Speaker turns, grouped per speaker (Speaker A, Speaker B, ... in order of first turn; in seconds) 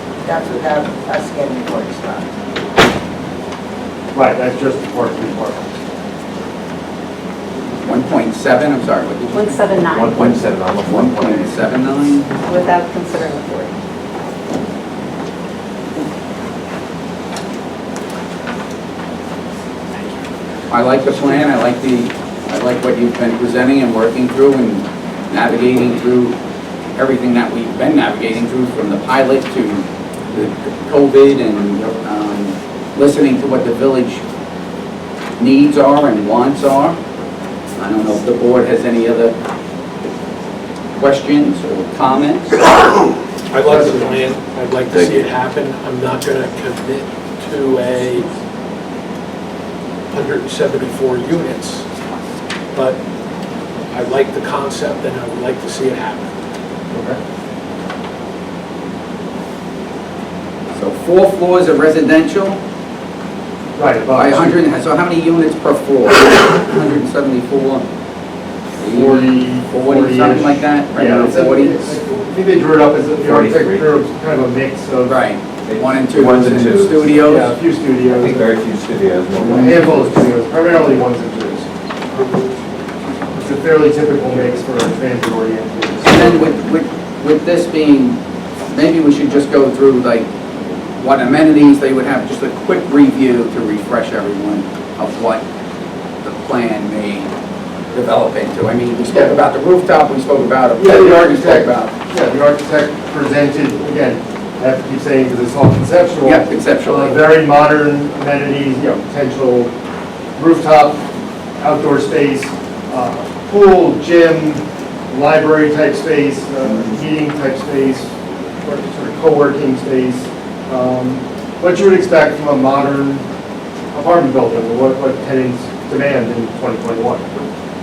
Speaker A: 0.2-2.3
Speaker B: 4.1-5.8, 43.6-44.2, 56.9-57.2, 63.8-64.5, 68.9-75.2, 77.2-78.5, 79.3-81.7, 83.3-86.5, 99.0-99.4, 100.8-109.7, 110.4-111.0, 111.6-123.3, 123.9-127.4
Speaker C: 7.8-12.4, 20.7-26.4, 27.0-34.2, 35.4-37.0, 37.8-39.4, 41.0-42.7, 44.9-45.2, 60.7-62.6, 64.2-67.9, 68.8-71.9, 75.1-77.5, 86.0-88.2, 88.7-95.4, 96.2-97.3, 97.9-101.9, 106.2-107.2
Speaker D: 9.3-10.4, 12.4-13.7
Speaker E: 9.9-11.6, 73.2-73.9, 75.7-77.2, 78.1-80.3
Speaker F: 43.5-48.3, 50.1-51.9, 52.7-53.0, 53.9-56.3